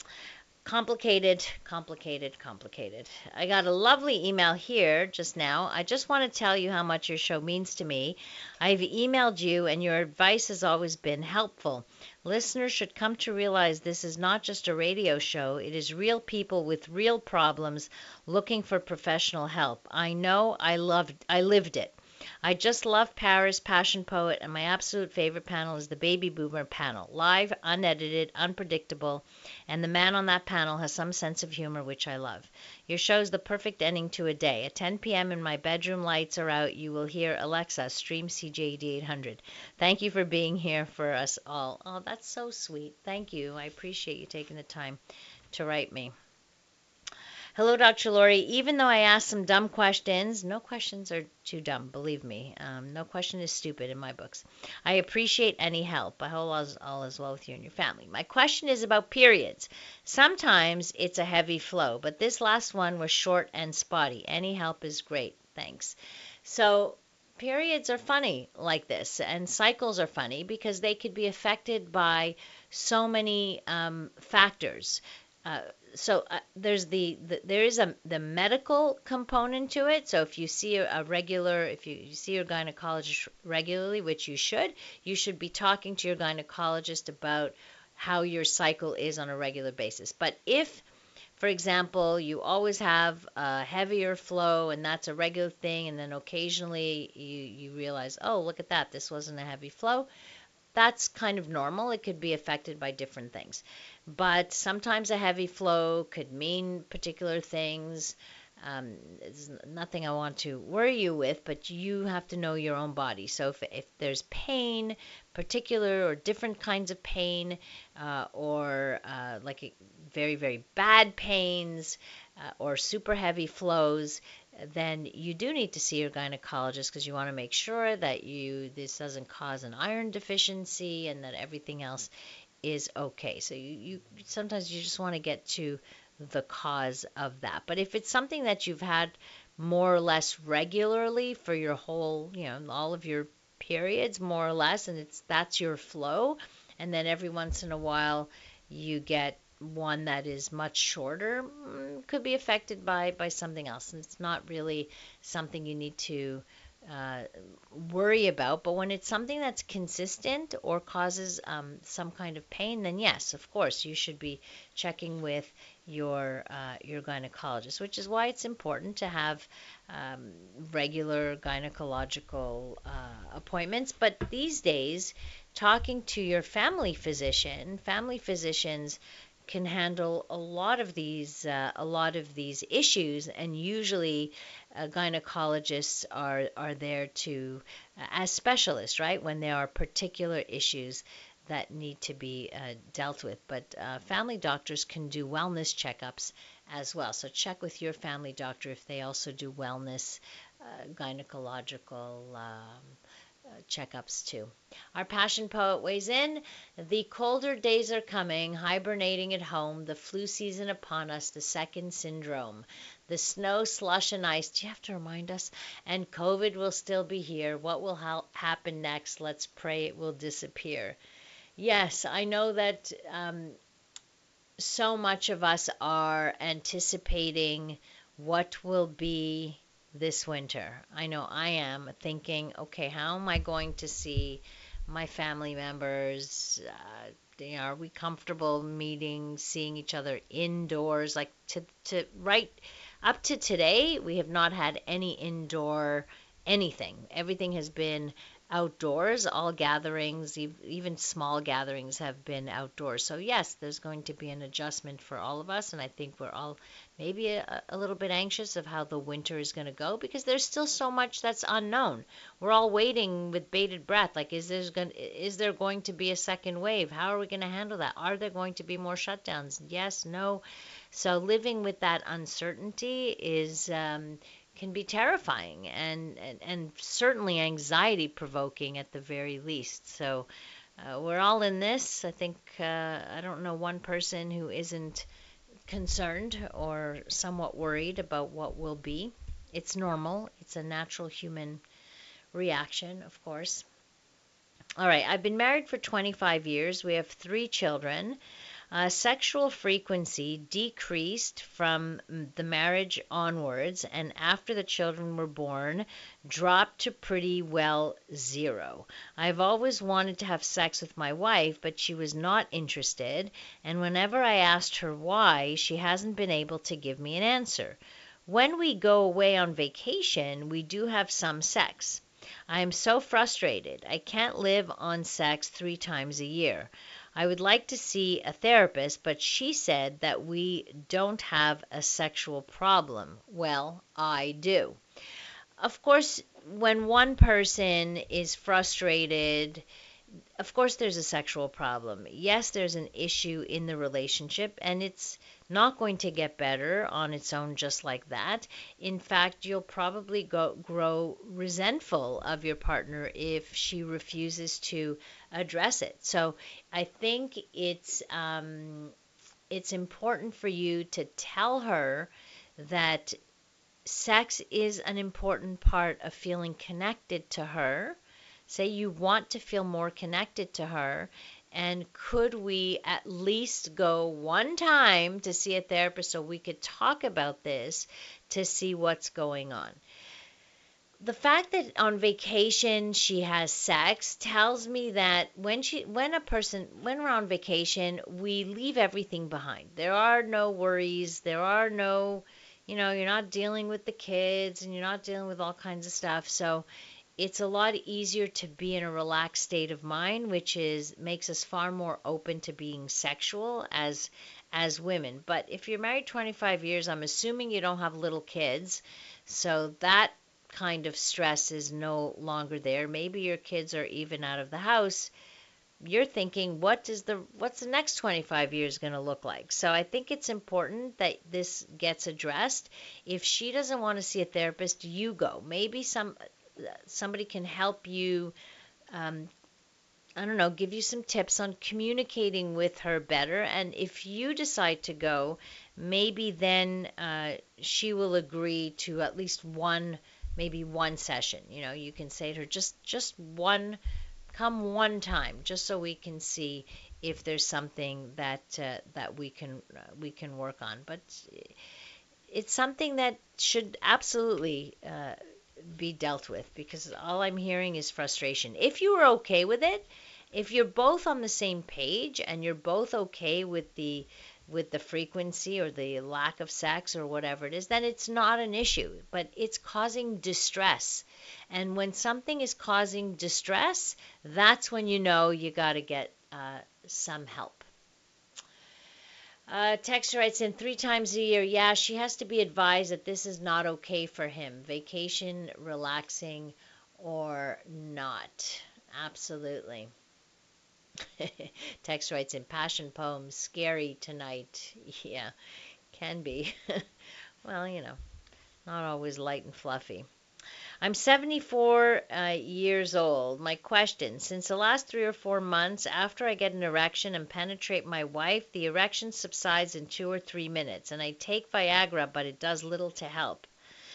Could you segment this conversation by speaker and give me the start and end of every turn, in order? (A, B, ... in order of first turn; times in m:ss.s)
0:00.6-0:45.0 A
0:45.5-0:46.1 A
0:47.5-1:30.8 A
1:31.4-1:40.1 A
1:40.7-2:12.1 A
2:12.6-3:23.0 A
3:23.7-3:41.0 A
3:41.6-3:43.6 A
3:44.6-4:40.3 A
4:40.8-4:45.0 A
4:45.7-4:51.6 A
4:52.3-4:53.6 A
4:54.8-4:58.2 A
4:58.7-5:34.8 A
5:35.6-5:39.6 A
5:40.4-5:58.9 A
5:59.5-6:03.2 A
6:03.8-6:08.0 A
6:08.5-6:19.8 A
6:21.0-6:36.7 A
6:37.2-6:55.1 A
6:55.8-7:08.3 A
7:08.9-7:09.3 A
7:10.2-7:23.8 A
7:24.3-7:31.5 A
7:32.3-7:57.7 A
7:59.5-8:09.9 A
8:11.2-8:15.3 A
8:15.9-8:16.8 A
8:17.4-8:18.0 A
8:18.6-8:20.1 A
8:20.8-8:33.5 A